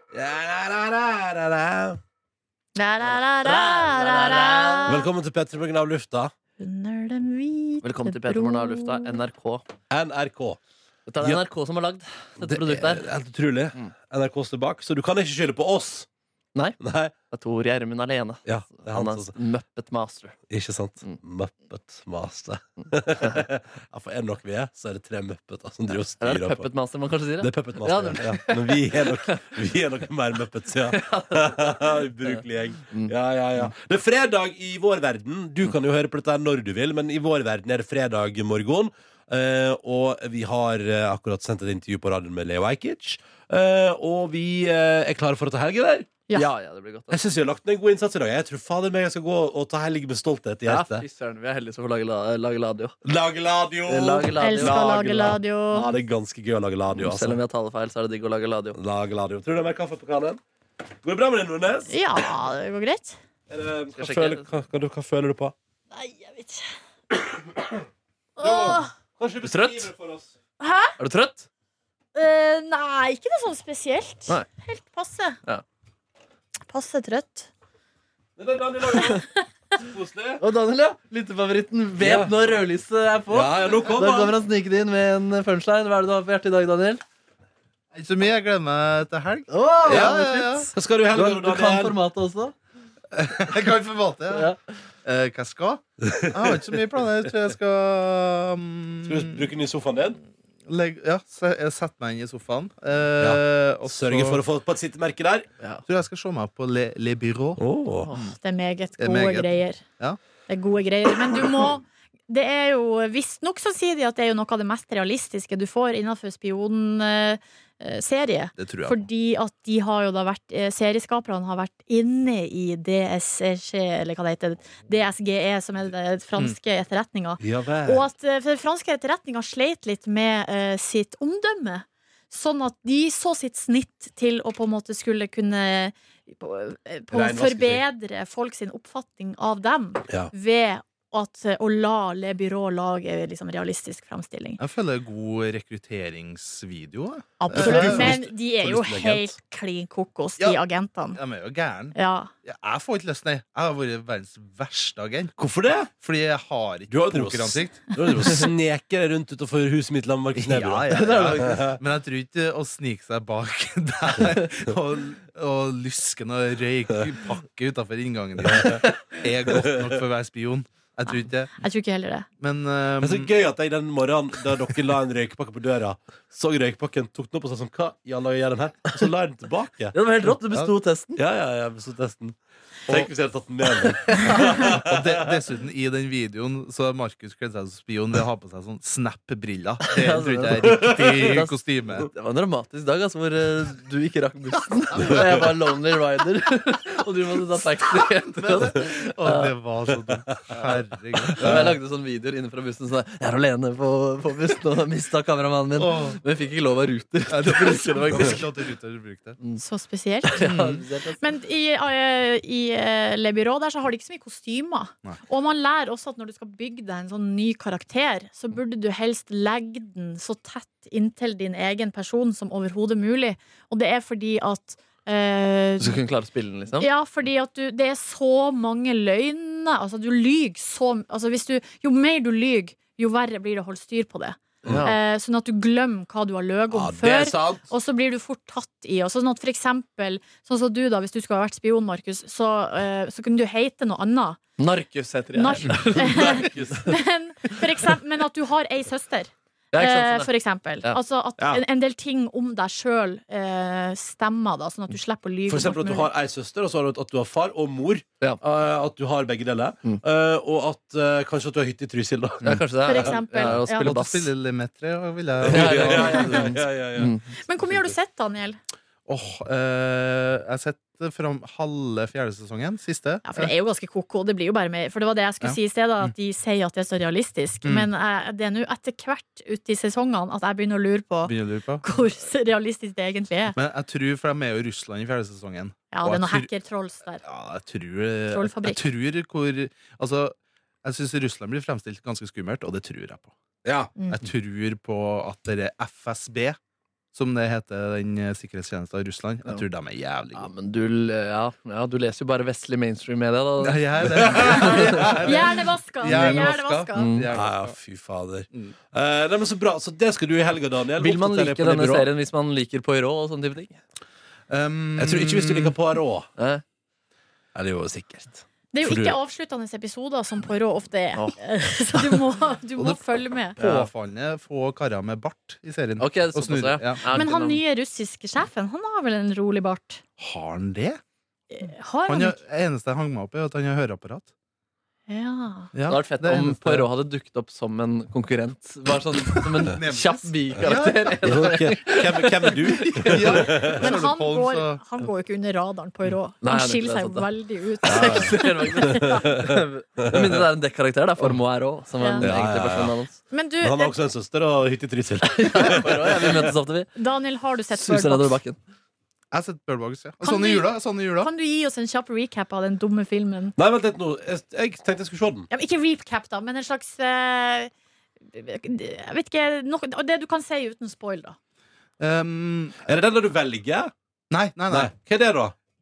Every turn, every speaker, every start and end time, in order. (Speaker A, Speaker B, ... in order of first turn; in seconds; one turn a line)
Speaker A: 0.1-2.0
Speaker B: 2.8-5.1
Speaker C: 3.4-4.9
Speaker A: 4.9-6.3
Speaker B: 6.6-9.2
Speaker C: 7.8-9.7
Speaker A: 9.9-10.6
Speaker C: 11.1-13.1
Speaker A: 12.4-16.1
Speaker A: 16.8-17.1
Speaker C: 17.3-20.4
Speaker A: 18.5-19.3
Speaker A: 20.5-26.7
Speaker C: 26.2-29.3
Speaker A: 27.4-46.1
Speaker C: 30.9-33.7
Speaker C: 46.3-47.2
Speaker A: 47.1-51.0
Speaker C: 50.7-53.0
Speaker A: 53.0-57.4
Speaker C: 53.9-55.4
Speaker B: 54.4-55.9
Speaker C: 57.0-58.8
Speaker A: 58.8-60.4
Speaker A: 61.0-62.0
Speaker B: 61.9-63.2
Speaker A: 63.5-65.5
Speaker C: 64.0-64.5
Speaker B: 65.9-66.8
Speaker A: 67.2-67.8
Speaker B: 68.4-68.9
Speaker A: 68.4-70.3
Speaker C: 69.4-69.9
Speaker B: 70.6-71.0
Speaker C: 71.0-71.5
Speaker B: 72.2-75.4
Speaker B: 76.7-77.5
Speaker A: 78.4-80.4
Speaker C: 80.4-87.0
Speaker A: 82.0-82.3
Speaker A: 83.3-84.4
Speaker D: 87.9-90.7
Speaker C: 89.5-92.5
Speaker A: 89.9-90.2
Speaker A: 90.7-92.0
Speaker D: 93.1-94.5
Speaker C: 94.3-94.6
Speaker D: 95.0-99.5
Speaker A: 96.0-96.8
Speaker A: 99.0-100.2
Speaker D: 100.7-104.4
Speaker A: 103.2-105.5
Speaker D: 105.9-107.6
Speaker A: 107.6-108.1
Speaker C: 108.1-108.4
Speaker B: 108.2-109.8
Speaker D: 109.0-110.2
Speaker B: 110.5-144.6
Speaker D: 118.6-119.1
Speaker A: 127.4-128.1
Speaker A: 137.1-137.8
Speaker D: 144.6-148.2
Speaker B: 147.4-151.2
Speaker A: 147.5-149.3
Speaker D: 151.1-155.4
Speaker B: 151.9-152.3
Speaker A: 155.4-155.9
Speaker D: 155.9-157.8
Speaker A: 156.9-161.8
Speaker D: 160.3-171.5
Speaker C: 160.9-161.6
Speaker A: 168.5-168.8
Speaker A: 169.6-169.8
Speaker B: 171.6-172.3
Speaker D: 172.4-173.3
Speaker A: 173.0-179.9
Speaker C: 179.9-181.2
Speaker A: 181.2-185.2
Speaker C: 183.9-184.6
Speaker D: 184.4-192.1
Speaker C: 189.9-199.5
Speaker A: 190.6-191.3
Speaker D: 198.3-201.8
Speaker C: 201.3-208.5
Speaker D: 205.8-206.2
Speaker D: 207.3-209.4
Speaker B: 209.6-226.0
Speaker C: 210.3-211.2
Speaker D: 210.4-210.8
Speaker C: 225.8-226.9
Speaker B: 226.8-244.4
Speaker C: 234.7-235.0
Speaker A: 236.7-237.6
Speaker C: 244.6-246.8
Speaker B: 245.3-256.1
Speaker A: 245.9-246.9
Speaker C: 249.7-250.3
Speaker A: 255.5-263.2
Speaker C: 262.4-264.3
Speaker B: 262.9-264.0
Speaker D: 263.8-266.5
Speaker A: 265.4-267.2
Speaker C: 265.4-267.3
Speaker B: 267.4-268.6
Speaker D: 269.1-273.5
Speaker B: 273.2-283.6
Speaker D: 275.4-276.1
Speaker D: 277.6-277.9
Speaker D: 281.2-281.8
Speaker D: 283.6-286.5
Speaker B: 285.9-287.2
Speaker D: 287.2-293.3
Speaker B: 288.3-288.8
Speaker A: 293.6-293.9
Speaker B: 294.0-294.2
Speaker D: 294.1-296.6
Speaker D: 297.1-300.5
Speaker C: 300.4-305.3
Speaker D: 303.6-307.8
Speaker A: 304.2-305.1
Speaker B: 305.2-307.1
Speaker C: 306.1-307.3
Speaker A: 307.3-312.1
Speaker C: 311.0-313.8
Speaker D: 314.5-315.8
Speaker A: 315.0-316.3
Speaker C: 316.4-316.6
Speaker A: 317.6-319.2
Speaker B: 318.7-323.6
Speaker D: 323.6-327.1
Speaker C: 323.6-323.9
Speaker C: 326.0-327.6
Speaker B: 327.1-330.0
Speaker D: 330.2-331.0
Speaker B: 331.5-332.4
Speaker D: 332.1-334.3
Speaker B: 335.1-335.7
Speaker D: 335.7-336.9
Speaker C: 335.9-343.3
Speaker D: 339.6-341.5
Speaker A: 341.2-343.9
Speaker D: 343.1-344.8
Speaker B: 343.5-349.3
Speaker C: 346.4-347.3
Speaker C: 347.8-353.2
Speaker A: 347.9-349.5
Speaker A: 350.0-350.4
Speaker B: 352.0-352.3
Speaker A: 352.2-353.0
Speaker B: 353.3-353.9
Speaker A: 353.6-356.5
Speaker C: 355.2-356.9
Speaker B: 356.9-358.4
Speaker C: 357.7-358.6
Speaker D: 359.3-361.3
Speaker B: 360.2-363.6
Speaker A: 363.6-365.5
Speaker B: 365.5-367.7
Speaker B: 368.3-371.4
Speaker D: 372.0-372.9
Speaker A: 372.8-373.9
Speaker D: 374.3-374.9
Speaker A: 374.7-375.6